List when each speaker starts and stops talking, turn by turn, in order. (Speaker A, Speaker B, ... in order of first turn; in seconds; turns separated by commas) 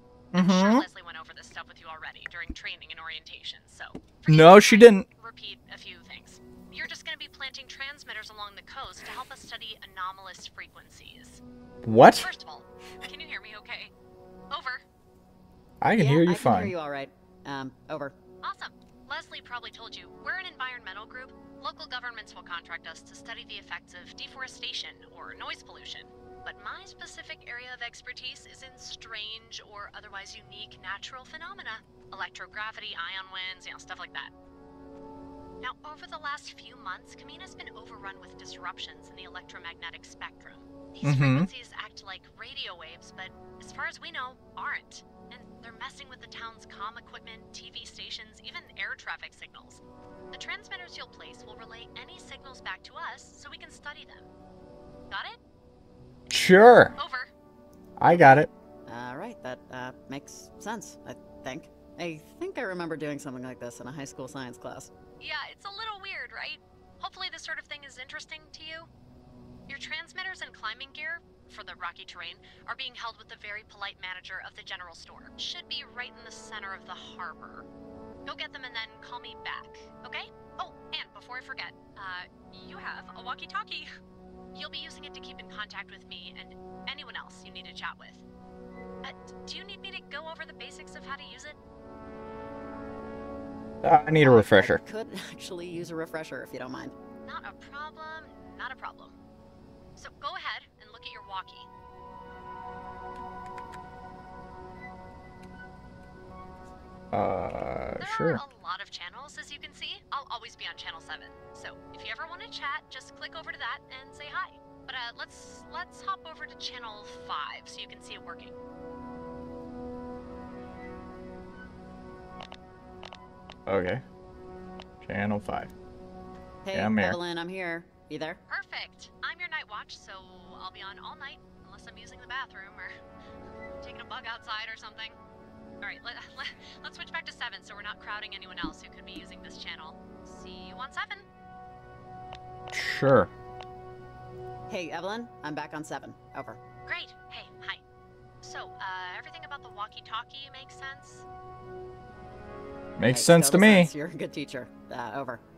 Speaker A: 0.3-0.8, Speaker B: 0.4-11.4, Speaker A: 4.3-5.1, Speaker A: 11.8-12.3, Speaker B: 12.2-13.9, Speaker B: 14.5-14.8, Speaker A: 15.8-16.7, Speaker C: 16.0-18.1, Speaker B: 18.4-34.3, Speaker B: 35.6-54.3, Speaker A: 41.0-41.5, Speaker B: 55.1-55.4, Speaker A: 56.3-56.9, Speaker B: 57.0-57.3, Speaker A: 58.0-58.5, Speaker C: 58.9-64.9, Speaker B: 65.2-68.9, Speaker B: 69.7-77.7, Speaker B: 78.2-83.9, Speaker B: 84.5-88.2, Speaker B: 89.0-91.6, Speaker A: 93.8-94.8, Speaker C: 94.2-96.9, Speaker B: 97.2-99.2, Speaker B: 100.0-101.7, Speaker A: 107.1-108.4, Speaker B: 108.0-118.5, Speaker A: 123.7-124.0, Speaker A: 125.0-125.7, Speaker C: 126.7-128.4, Speaker A: 126.7-127.2, Speaker B: 128.5-132.9, Speaker B: 133.8-135.2, Speaker B: 135.8-141.2, Speaker A: 142.7-143.3, Speaker C: 144.7-146.6, Speaker B: 146.8-147.8, Speaker B: 148.4-151.2, Speaker A: 153.0-153.9, Speaker C: 153.1-155.4